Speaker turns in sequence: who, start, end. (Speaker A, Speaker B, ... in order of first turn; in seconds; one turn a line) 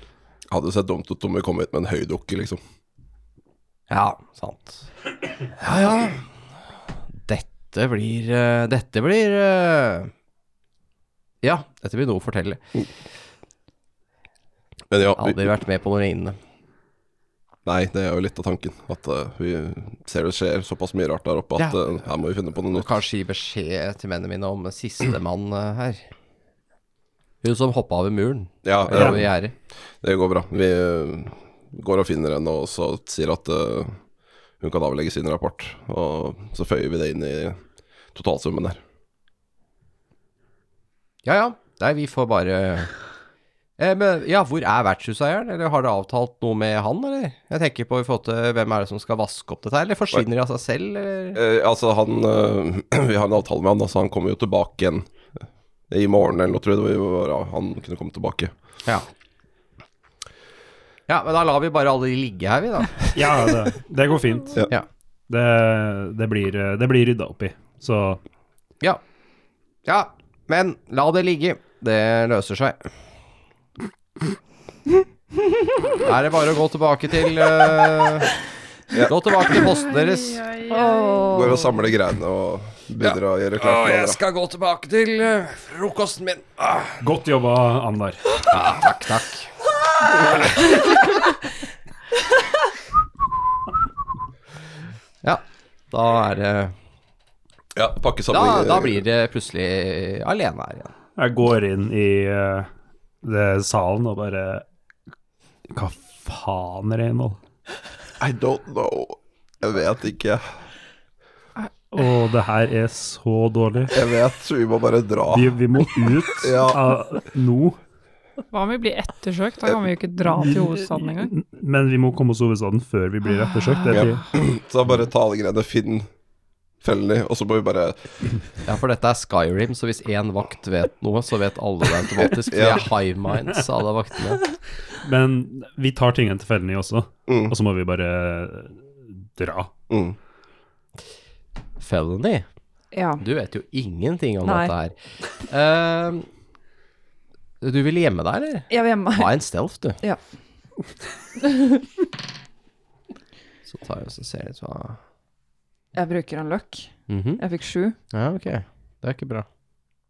Speaker A: 0.5-2.6
Speaker B: 3.9-4.8
Speaker B: 5.5-6.2
Speaker B: 7.2-10.1
Speaker B: 11.4-12.8
Speaker A: 14.9-15.4
Speaker B: 15.2-16.4
Speaker A: 17.6-22.9
Speaker B: 22.7-26.1
Speaker B: 27.4-29.5
Speaker A: 28.6-29.3
Speaker A: 30.0-34.0
Speaker A: 34.6-37.6
Speaker A: 38.1-38.8
Speaker B: 41.2-42.9
Speaker B: 43.8-51.4
Speaker A: 51.3-55.1
Speaker A: 55.9-58.5
Speaker B: 61.1-63.5
Speaker C: 63.1-64.6
Speaker C: 65.3-68.2
Speaker B: 69.8-72.9
Speaker B: 76.0-78.3
Speaker B: 79.0-80.5
Speaker D: 80.7-81.6
Speaker A: 81.3-84.2
Speaker B: 83.6-87.0
Speaker C: 87.0-88.4
Speaker B: 88.5-89.5
Speaker B: 95.2-96.7
Speaker A: 97.8-99.0
Speaker B: 98.3-100.9
Speaker C: 101.2-102.7
Speaker C: 103.2-104.7
Speaker C: 105.7-107.4
Speaker A: 108.2-110.4
Speaker C: 111.9-114.0
Speaker A: 113.9-116.8
Speaker C: 115.3-117.8
Speaker E: 118.5-121.3
Speaker C: 120.3-124.2
Speaker A: 123.9-126.1
Speaker A: 126.8-128.1
Speaker B: 128.6-134.6
Speaker A: 132.5-132.9
Speaker C: 135.0-139.7
Speaker A: 137.3-137.5
Speaker A: 139.9-140.2
Speaker B: 141.8-142.4
Speaker D: 142.9-143.2
Speaker B: 143.2-146.3
Speaker D: 144.4-144.7
Speaker B: 147.6-150.0
Speaker D: 148.7-149.3
Speaker D: 151.4-151.8
Speaker B: 153.7-155.0
Speaker D: 155.9-158.0
Speaker B: 157.1-157.4
Speaker B: 158.1-159.5